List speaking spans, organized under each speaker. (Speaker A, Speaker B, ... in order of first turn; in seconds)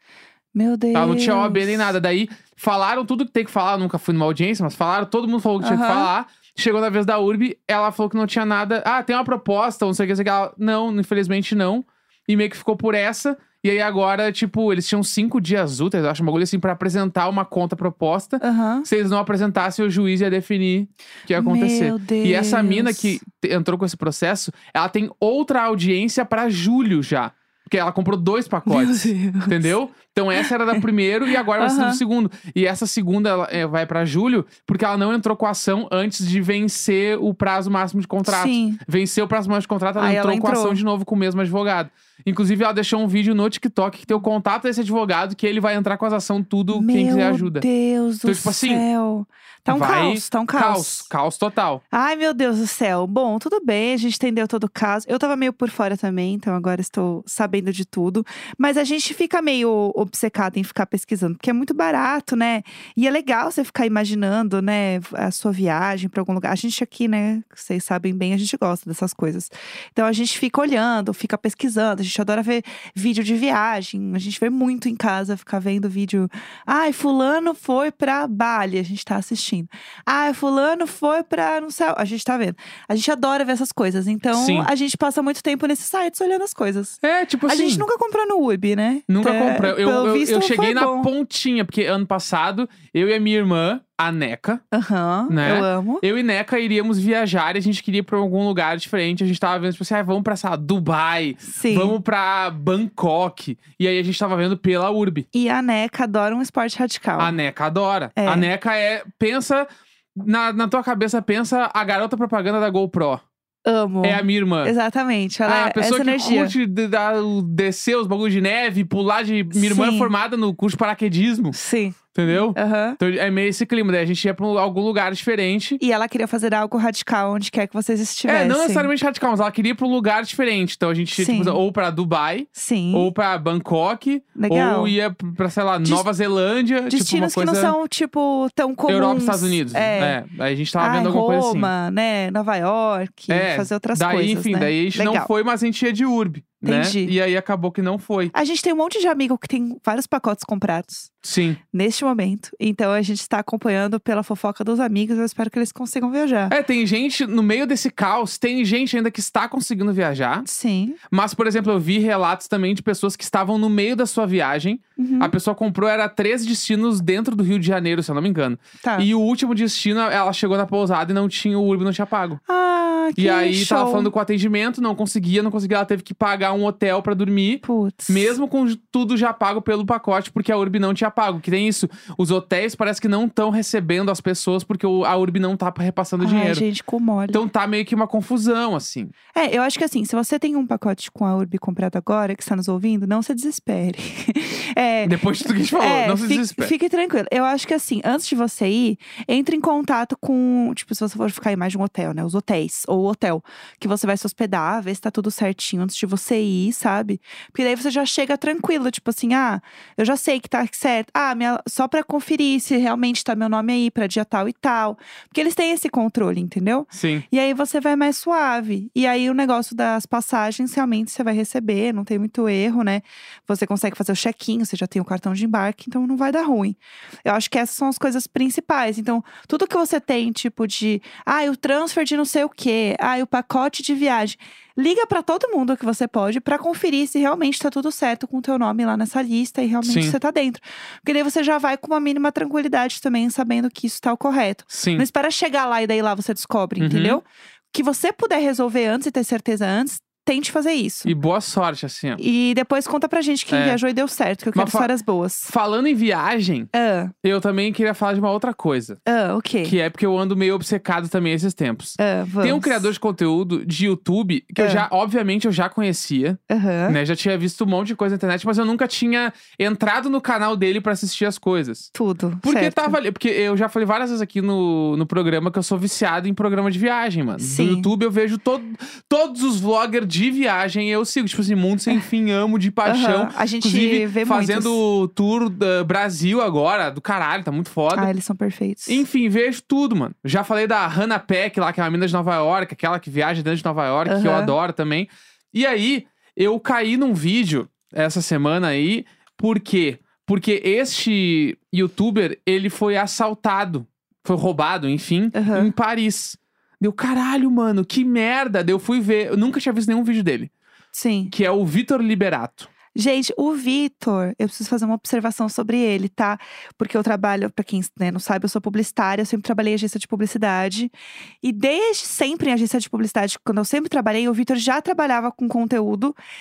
Speaker A: 0.5-1.9, 5.6-6.1, 18.4-18.9, 21.3-23.2, 28.7-29.7, 30.4-30.8, 31.6-32.0, 38.2-38.8, 40.0-40.8, 46.7-51.1, 51.9-91.1, 94.7-96.0, 101.5-102.0, 105.3-107.3, 108.2-108.5, 113.7-116.5, 119.5-120.1, 121.5-123.0, 125.8-128.9, 131.1-131.6, 132.5-133.1, 134.3-134.9, 136.9-140.2, 140.8-145.3, 146.6-147.1, 148.3-151.1, 151.7-156.6, 160.4-161.0, 165.0-165.3, 168.8-169.1, 172.5-174.1, 177.6-178.3, 186.2-187.4, 189.3-251.1, 252.2-255.5, 256.7-257.1, 259.1-259.7, 262.0-262.9, 264.6-264.8, 266.5-267.0, 271.9-273.0, 277.4-277.9, 282.8-284.8, 287.9-289.0, 294.1-294.5, 305.3-305.7, 310.9-311.3, 312.9-326.1
Speaker B: 0.9-47.6, 48.2-48.8, 49.7-51.8, 84.3-84.7, 87.0-87.8, 89.1-94.6, 95.3-105.3, 107.2-113.2, 114.0-114.7, 115.5-121.5, 122.1-125.8, 128.2-137.7, 138.9-141.7, 143.3-148.3, 151.2-151.6, 156.5-160.4, 161.1-172.4, 173.2-186.6, 187.3-189.1, 195.0-196.7, 216.9-217.2, 239.8-240.1, 244.7-245.1, 246.8-247.2, 251.0-252.2, 253.5-253.8, 254.5-254.9, 255.4-256.7, 257.2-259.0, 259.6-271.9, 272.4-288.1, 288.9-310.5, 311.3-312.7